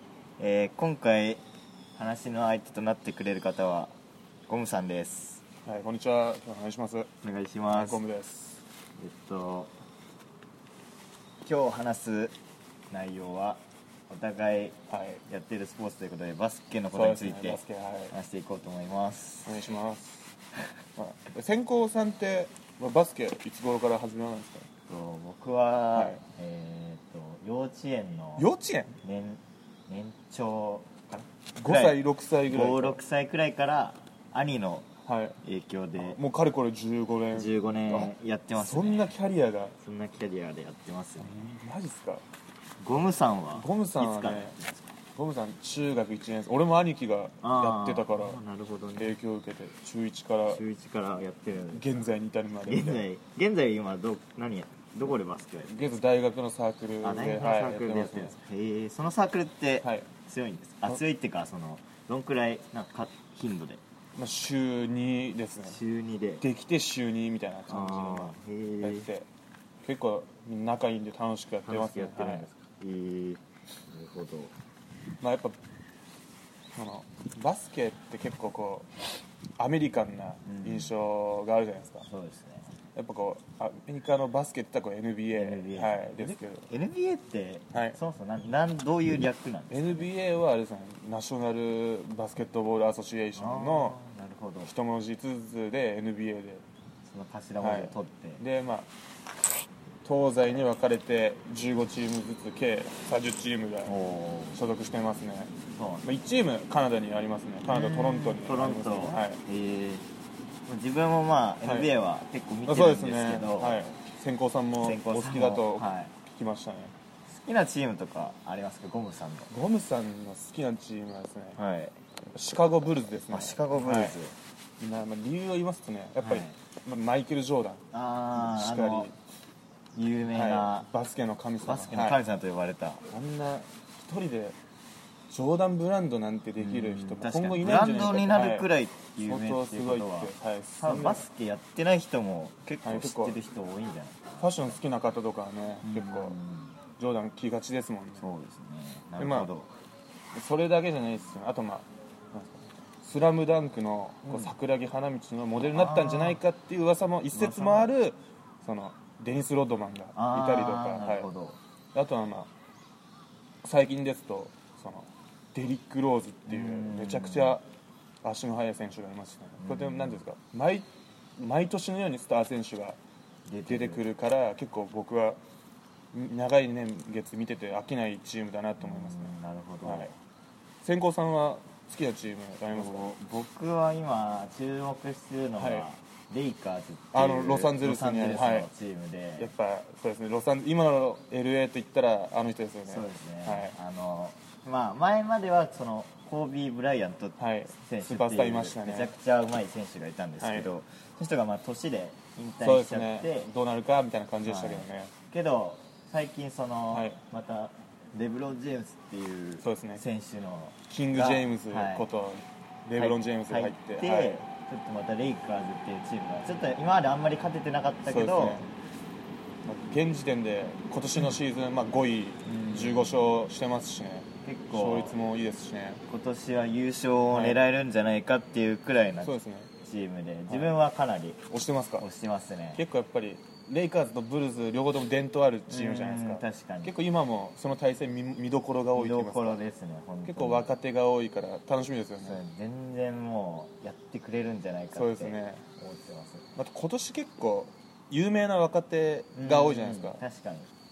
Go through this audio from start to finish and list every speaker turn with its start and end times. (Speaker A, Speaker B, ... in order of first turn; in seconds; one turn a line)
Speaker A: 0.4-1.4
Speaker A: 1.9-3.9
Speaker A: 4.5-5.4
Speaker B: 5.6-7.1
Speaker A: 7.2-8.0
Speaker B: 7.7-8.6
Speaker A: 9.0-9.7
Speaker A: 11.4-12.3
Speaker A: 12.9-19.6
Speaker B: 14.9-15.2
Speaker B: 16.9-18.1
Speaker B: 19.4-20.3
Speaker B: 21.0-24.7
Speaker A: 24.9-28.5
Speaker B: 25.9-26.2
Speaker B: 28.4-29.0
Speaker A: 29.0-34.9
Speaker B: 31.6-33.0
Speaker B: 35.0-35.4
Speaker A: 35.4-36.2
Speaker B: 36.0-39.7
Speaker A: 37.3-39.1
Speaker A: 39.8-41.5
Speaker B: 41.2-42.2
Speaker A: 42.8-45.0
Speaker B: 43.5-44.5
Speaker B: 45.1-48.4
Speaker A: 47.4-49.1
Speaker B: 49.0-50.6
Speaker A: 50.5-51.9
Speaker B: 51.7-53.0
Speaker A: 52.6-55.9
Speaker B: 55.7-58.4
Speaker A: 57.0-63.8
Speaker B: 64.2-65.8
Speaker A: 65.6-66.4
Speaker B: 66.4-69.3
Speaker A: 67.7-69.1
Speaker B: 69.8-72.5
Speaker A: 71.7-74.5
Speaker B: 75.2-75.5
Speaker B: 76.7-78.9
Speaker B: 79.6-82.0
Speaker A: 80.4-81.0
Speaker A: 82.0-82.8
Speaker B: 83.0-86.7
Speaker A: 85.3-90.1
Speaker B: 89.7-94.0
Speaker A: 93.3-94.7
Speaker B: 94.6-96.6
Speaker A: 97.0-98.4
Speaker B: 97.6-98.9
Speaker B: 100.0-103.9
Speaker A: 103.8-104.6
Speaker B: 104.5-105.5
Speaker A: 105.7-106.1
Speaker B: 106.0-109.4
Speaker A: 107.7-110.1
Speaker A: 110.7-113.9
Speaker B: 111.6-111.9
Speaker B: 112.7-116.9
Speaker A: 114.8-116.1
Speaker A: 117.3-119.5
Speaker B: 119.5-121.6
Speaker A: 121.6-121.9
Speaker B: 122.3-124.2
Speaker A: 123.3-124.3
Speaker B: 124.8-129.1
Speaker A: 126.2-126.6
Speaker A: 127.9-129.1
Speaker A: 129.9-130.9
Speaker B: 130.3-132.2
Speaker A: 131.6-133.1
Speaker B: 133.1-134.6
Speaker B: 135.3-138.7
Speaker A: 136.6-144.8
Speaker B: 139.2-141.2
Speaker B: 142.8-143.4
Speaker B: 144.4-146.4
Speaker A: 145.8-146.8
Speaker B: 147.0-148.2
Speaker A: 148.2-149.7
Speaker B: 149.2-149.5
Speaker B: 150.3-161.3
Speaker A: 154.2-154.5
Speaker A: 155.6-156.4
Speaker A: 157.3-157.9
Speaker A: 160.1-161.6
Speaker B: 161.9-162.5
Speaker B: 163.6-167.6
Speaker A: 166.5-167.6
Speaker B: 168.2-173.0
Speaker A: 169.6-170.2
Speaker A: 173.4-174.1
Speaker B: 173.7-175.4
Speaker B: 176.1-180.1
Speaker A: 178.8-180.1
Speaker B: 180.8-183.1
Speaker A: 182.7-189.5
Speaker B: 185.6-185.8
Speaker B: 187.1-188.7
Speaker B: 189.4-193.7
Speaker A: 192.8-203.5
Speaker B: 197.4-199.1
Speaker B: 200.4-200.7
Speaker B: 202.6-205.1
Speaker A: 204.4-212.1
Speaker B: 206.9-207.2
Speaker B: 209.6-210.0
Speaker B: 210.9-214.4
Speaker A: 212.9-218.7
Speaker B: 218.1-218.7
Speaker B: 219.7-226.0
Speaker A: 222.4-223.2
Speaker A: 224.4-225.2
Speaker A: 226.1-231.4
Speaker B: 227.3-227.6
Speaker B: 229.2-229.7
Speaker B: 230.5-230.7
Speaker B: 231.5-232.0
Speaker A: 232.0-232.8
Speaker B: 232.8-239.6
Speaker A: 235.7-236.9
Speaker A: 238.9-240.7
Speaker B: 240.2-242.4
Speaker A: 242.2-246.5
Speaker B: 244.9-245.6
Speaker B: 246.6-250.2
Speaker A: 249.3-250.7